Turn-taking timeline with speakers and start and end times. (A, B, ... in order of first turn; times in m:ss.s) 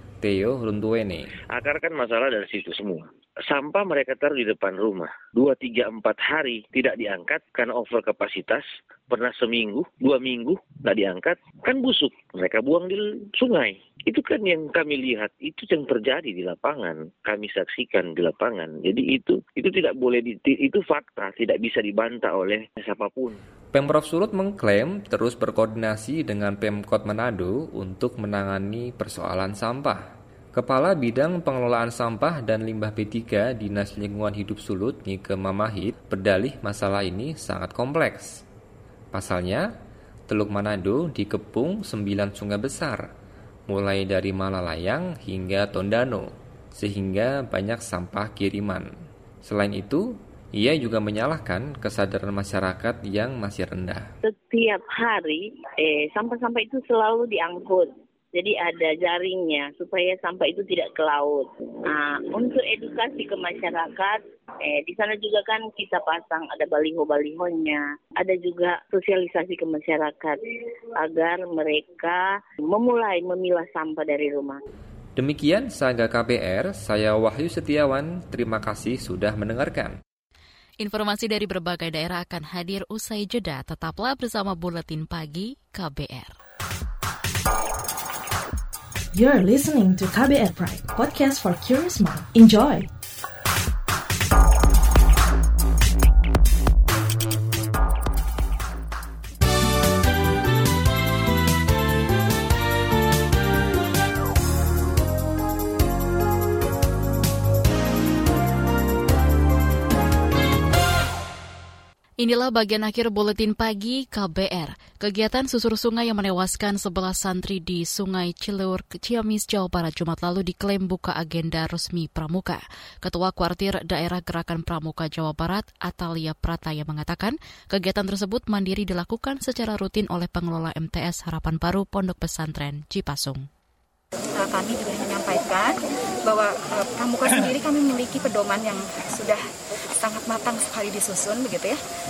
0:00.2-0:01.3 A
0:01.5-0:23.4 B
0:23.7-0:38.4 A
0:39.1-0:39.7 A
0:40.3-0:43.1 A
0:43.7-0:48.9 A
0:49.4-0:54.1 A
0:54.2-1:10.4 C
1:11.0-1:14.6 C
1:15.2-1:20.0 A
1:20.8-1:26.3 D
1:29.1-1:32.9 E
1:52.2-2:13.5 D
2:14.4-2:19.4 F
2:20.0-2:21.8 F